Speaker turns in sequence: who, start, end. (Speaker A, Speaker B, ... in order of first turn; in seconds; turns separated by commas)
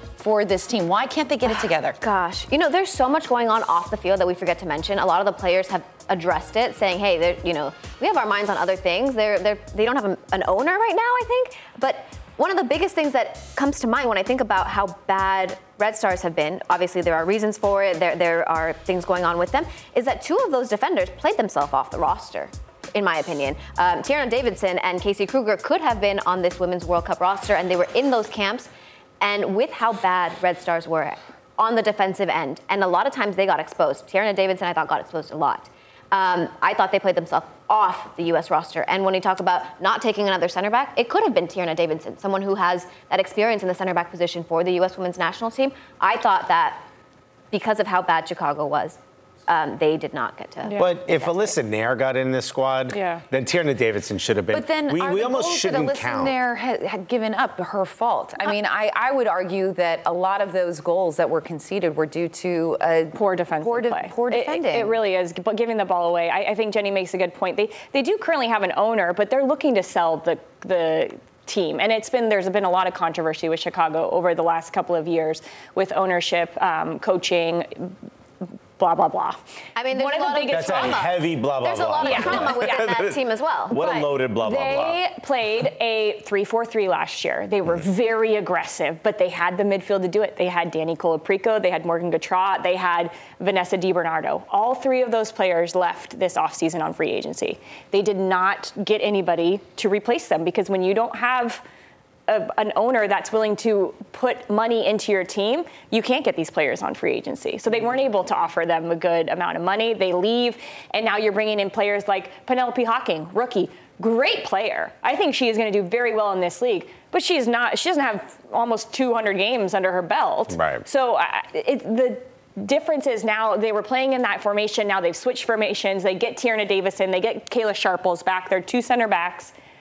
Speaker A: 0.2-2.0, Speaker B: 1.4-28.7, Speaker B: 29.2-46.8, Speaker B: 47.5-51.6, Speaker C: 50.6-50.9, Speaker D: 50.8-56.4, Speaker C: 52.9-53.2, Speaker A: 54.5-65.0, Speaker C: 63.1-77.9, Speaker C: 78.8-79.4, Speaker B: 79.8-83.9, Speaker C: 79.9-81.1, Speaker D: 80.5-85.0, Speaker C: 82.0-82.9, Speaker C: 83.7-101.6, Speaker C: 102.3-129.5, Speaker D: 120.5-120.8